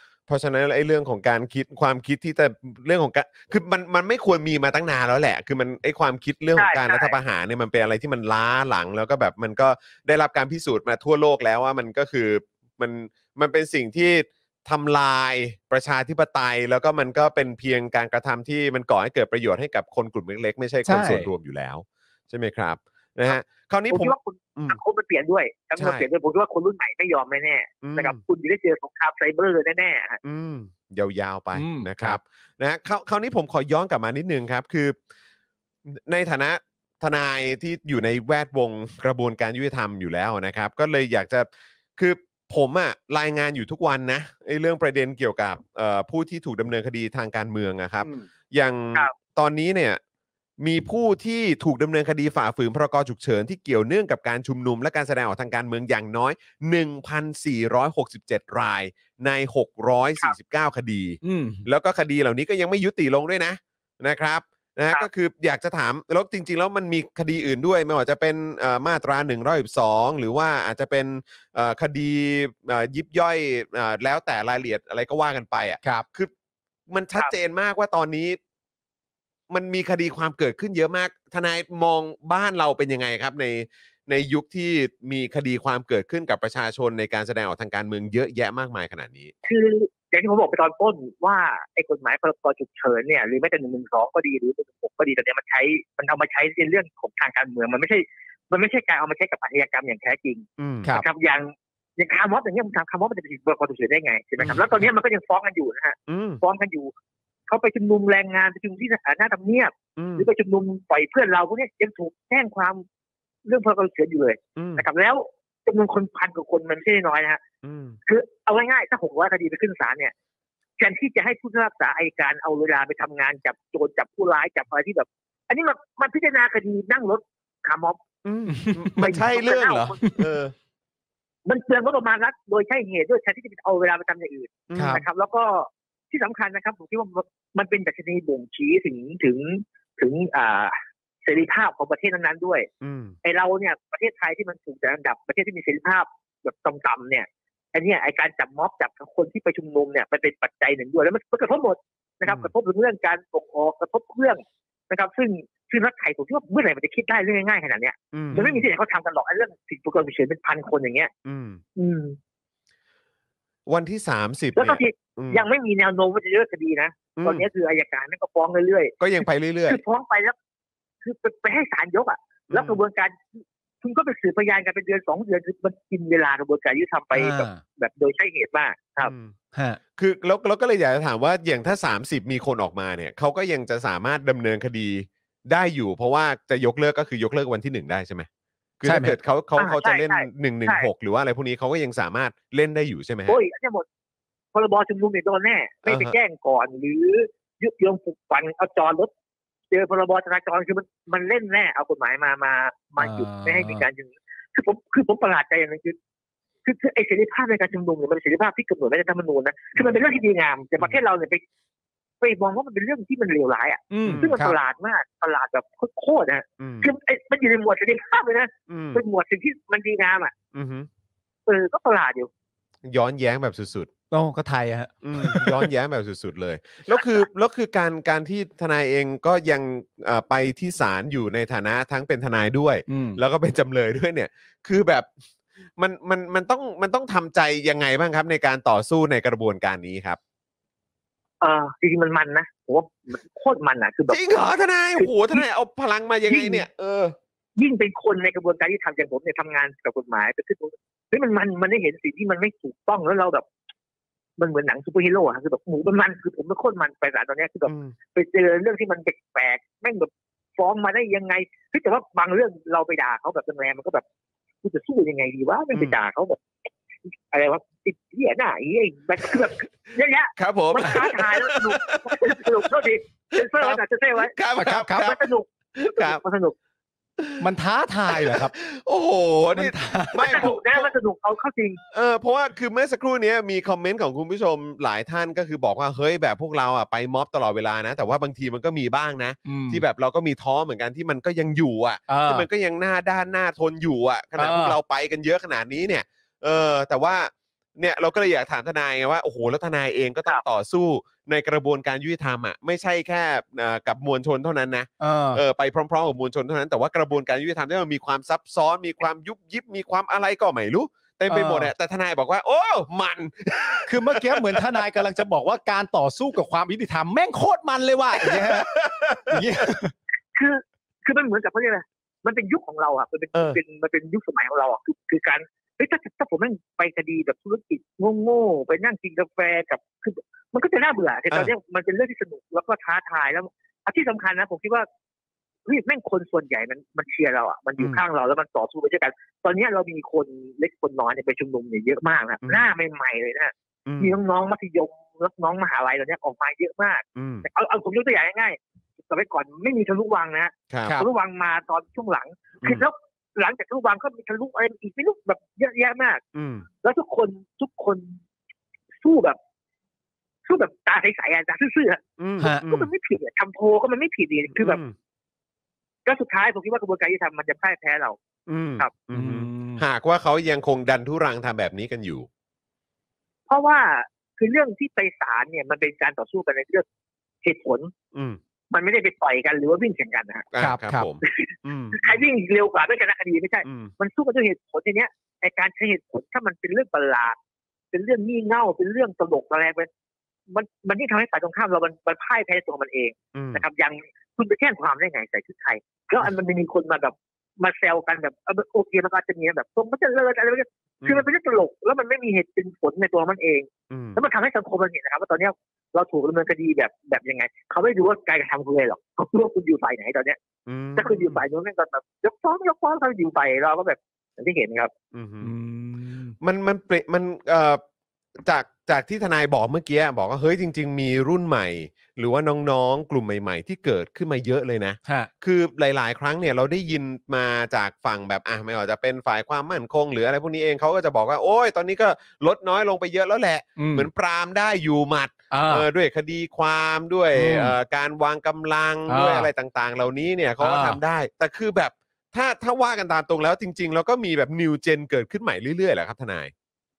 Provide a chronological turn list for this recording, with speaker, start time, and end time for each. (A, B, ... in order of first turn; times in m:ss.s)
0:00.3-0:24.8 A
0:06.6-0:07.2 B
0:20.8-0:21.3 C
0:23.9-0:30.2 B
0:25.8-0:26.1 A
0:27.8-0:28.2 A
0:30.2-0:35.0 A
0:31.6-0:32.2 C
0:35.9-0:50.0 A
0:50.6-1:16.3 A
1:01.2-1:01.7 C
1:16.9-1:18.4 A
1:19.5-1:29.3 A
1:29.4-1:46.9 B
1:40.6-1:40.9 A
1:46.1-1:46.4 A
1:47.5-1:52.8 B
1:50.0-1:50.3 A
1:53.5-1:57.4 B
1:54.6-1:54.8 A
1:57.6-1:58.0 A
1:58.1-2:00.1 B
2:00.8-2:08.0 B
2:08.2-2:10.5 A
2:08.5-2:09.2 C
2:09.0-2:10.1 B
2:11.5-2:22.7 B
2:14.7-2:15.0 A
2:14.8-2:15.0 C
2:22.8-2:23.2 A
2:23.2-2:41.1 B
2:38.1-2:38.6 A
2:41.2-2:41.6 A
2:41.8-2:42.2 B
2:43.7-2:45.4 A
2:44.6-2:49.0 B
2:47.2-2:47.5 A
2:49.0-2:49.8 A
2:49.7-2:50.4 B
2:51.0-2:59.1 B
2:52.5-2:52.8 A
2:57.1-2:57.6 C
2:59.0-2:59.3 A
2:59.5-2:59.8 C
3:00.0-3:08.3 A
3:08.8-3:13.4 A
3:08.8-3:09.2 C
3:09.6-3:10.9 B
3:13.3-3:13.8 B
3:14.5-3:19.1 B
3:15.9-3:16.2 A
3:19.7-3:26.0 B
3:23.0-3:23.8 C
3:26.6-3:31.4 B
3:32.2-3:40.3 B
3:33.9-3:34.6 C
3:34.0-3:34.3 A
3:36.6-3:36.9 A
3:38.7-3:39.0 A
3:40.5-3:40.9 A
3:41.5-3:42.3 B
3:42.8-3:43.9 A
3:44.1-3:45.7 C
3:45.0-3:55.1 A
3:52.9-3:53.2 C
3:55.8-4:00.2 A
4:01.4-4:04.4 B
4:04.1-4:07.2 A
4:05.0-4:05.4 B
4:06.3-4:06.6 B
4:07.6-4:13.5 B
4:14.4-4:24.0 B
4:17.7-4:18.0 A
4:24.6-4:26.4 B
4:27.3-4:34.4 B
4:30.4-4:35.2 A
4:34.6-4:35.1 C
4:34.9-4:36.6 B
4:35.8-4:36.2 A
4:37.4-4:38.5 C
4:38.1-4:40.9 A
4:39.6-4:40.5 C
4:40.2-4:41.8 B
4:41.9-5:15.0 A
4:49.4-4:49.8 C
4:52.1-4:52.5 C
4:54.4-4:54.8 C
5:05.0-5:05.4 C
5:11.3-5:11.7 C
5:13.9-5:19.9 C
5:18.2-5:19.7 A
5:20.4-5:34.9 B
5:23.3-5:23.6 A
5:35.7-5:56.2 B
5:37.8-5:38.0 A
5:43.9-5:44.1 A
5:47.2-5:47.5 A
5:50.7-5:51.0 A
5:56.3-5:56.7 A
5:56.8-5:58.2 B
5:59.0-5:59.4 B
6:00.5-6:04.8 B
6:02.2-6:02.8 A
6:02.4-6:02.8 C
6:04.6-6:04.9 A
6:06.1-6:08.2 B
6:08.5-6:12.3 A
6:09.1-6:09.8 C
6:13.5-6:16.8 B
6:17.4-6:17.9 B
6:18.1-6:18.4 A
6:18.7-6:20.5 B
6:20.5-6:22.2 A
6:20.6-6:21.1 C
6:21.2-6:27.4 B
6:23.6-6:23.9 A
6:27.9-6:29.9 B
6:30.5-6:50.4 B
6:33.3-6:33.6 A
6:43.9-6:44.2 A
6:50.7-6:51.4 A
6:51.0-6:54.9 B
6:55.1-6:55.5 A
6:55.4-6:56.4 C
6:56.4-6:57.8 A
6:58.4-7:26.5 A
7:05.0-7:05.3 C
7:13.8-7:14.1 C
7:15.5-7:15.9 C
7:17.3-7:17.8 C
7:19.1-7:19.5 C
7:20.6-7:21.0 C